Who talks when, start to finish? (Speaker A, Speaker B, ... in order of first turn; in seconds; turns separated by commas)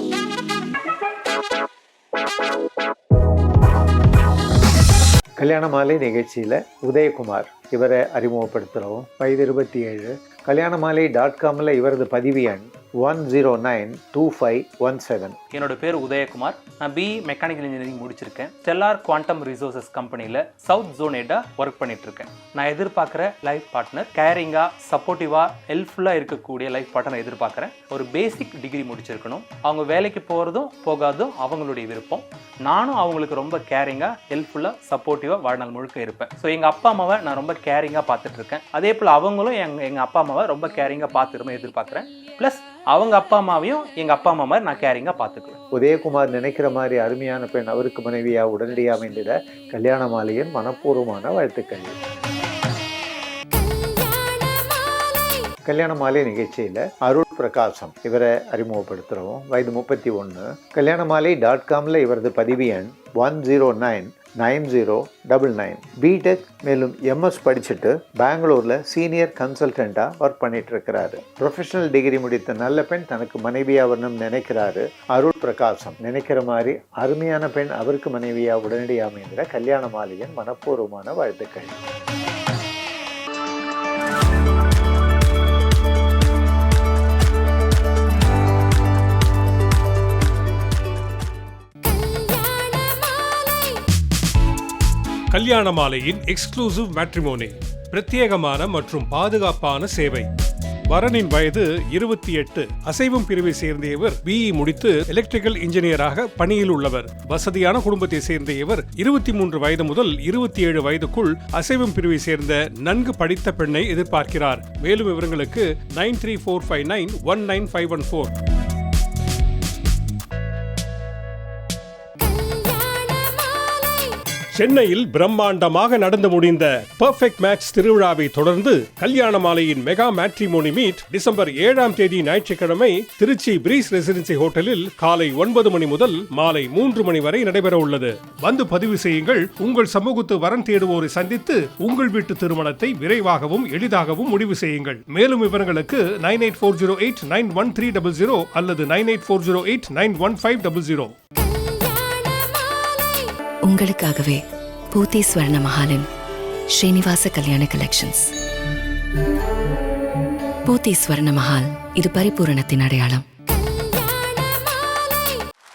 Speaker A: 5.4-15.4, Speaker B: 15.5-45.6, Speaker A: 45.7-51.9, Speaker C: 53.6-55.5, Speaker A: 55.6-81.8, Speaker C: 91.8-93.8, Speaker D: 95.3-100.3, Speaker D: 100.9-118.3, Speaker C: 122.2-124.2, Speaker D: 124.5-151.1, Speaker E: 153.6-156.1, Speaker E: 156.7-158.3, Speaker E: 160.7-163.2, Speaker C: 163.6-165.4